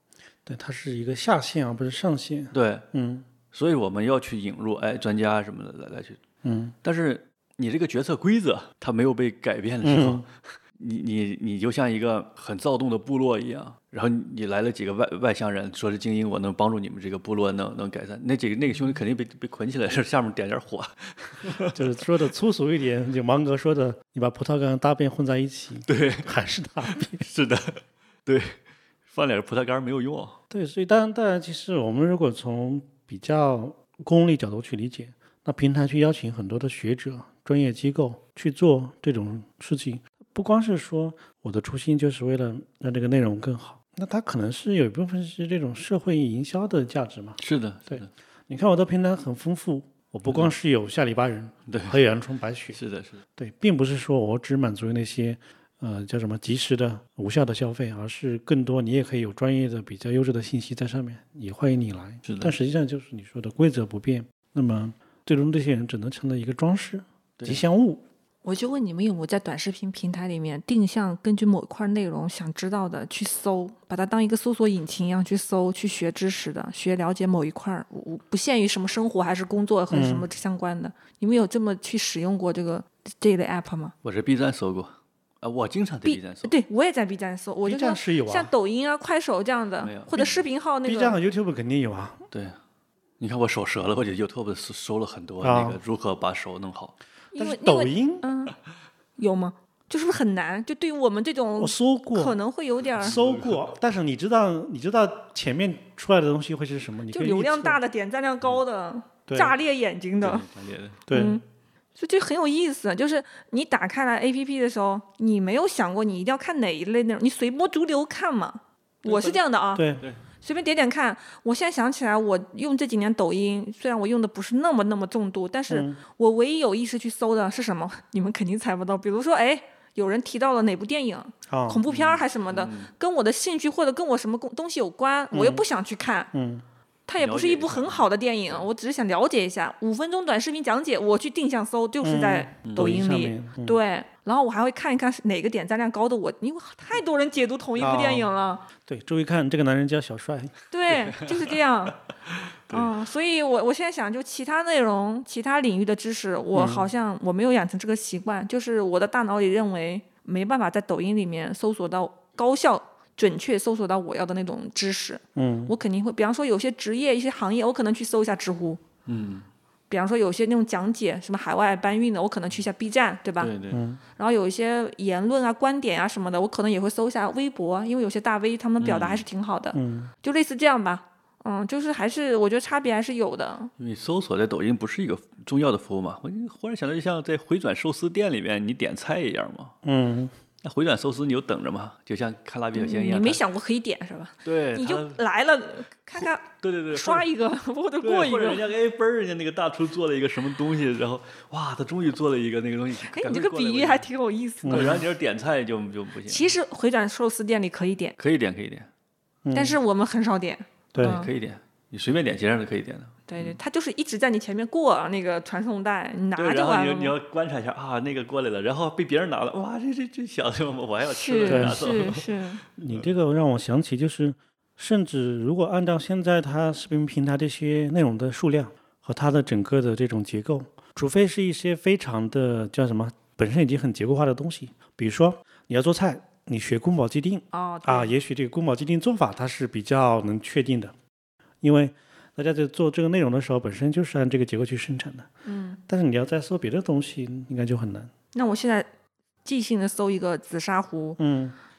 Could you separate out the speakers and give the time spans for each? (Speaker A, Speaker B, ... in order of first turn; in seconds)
Speaker A: 0.5-3.2, 6.4-6.7, 9.8-10.2, 21.7-27.2, 30.5-52.8, 53.4-68.0, 79.9-80.3, 87.6-88.5, 90.8-92.2, 95.4-95.8, 97.3-98.2, 101.6-102.3, 103.0-107.8, 109.3-109.5, 111.1-111.4, 119.7-120.0, 125.7-126.0, 131.5-131.8, 135.3-135.6, 136.3-136.6, 142.0-143.8, 147.8-148.3, 148.8-150.5, 156.5-156.9, 165.3-165.7, 173.7-174.0, 179.7-180.1, 189.8-190.3, 204.6-205.0, 209.4-209.8, 210.9-211.2, 221.5-222.0, 222.8-240.9, 241.6-245.3, 245.9-248.1, 251.2-251.6
Speaker B: 2.5-2.9, 3.5-6.2, 6.8-21.9, 25.9-26.3, 26.9-30.4, 47.4-48.1, 51.7-52.0, 52.7-53.2, 62.2-62.5, 67.4-67.7, 84.0-86.5, 89.8-90.4, 92.3-92.6, 93.2-96.9, 103.0-103.7, 110.2-111.0, 119.0-119.4, 131.9-132.9, 137.2-138.7, 142.6-142.9, 150.9-151.6, 152.5-152.9, 169.1-169.5, 173.4-173.8, 178.8-179.2, 183.8-189.7, 190.6-193.4, 194.4-195.2, 196.2-197.2, 198.0-204.1, 204.7-206.5, 208.2-208.9, 211.0-213.6, 216.3-222.3
Speaker C: 68.4-83.9, 86.0-91.2, 97.3-98.6, 99.2-103.2, 107.1-110.5, 111.1-111.4, 112.0-136.3, 137.1-148.6, 150.7-152.0, 152.7-168.8, 169.9-173.5, 174.2-183.7, 192.8-198.7, 203.0-205.0, 206.3-208.2, 209.5-211.3, 213.3-217.2, 221.0-222.6, 237.5-238.1, 245.4-245.8, 248.3-248.9, 249.4-251.2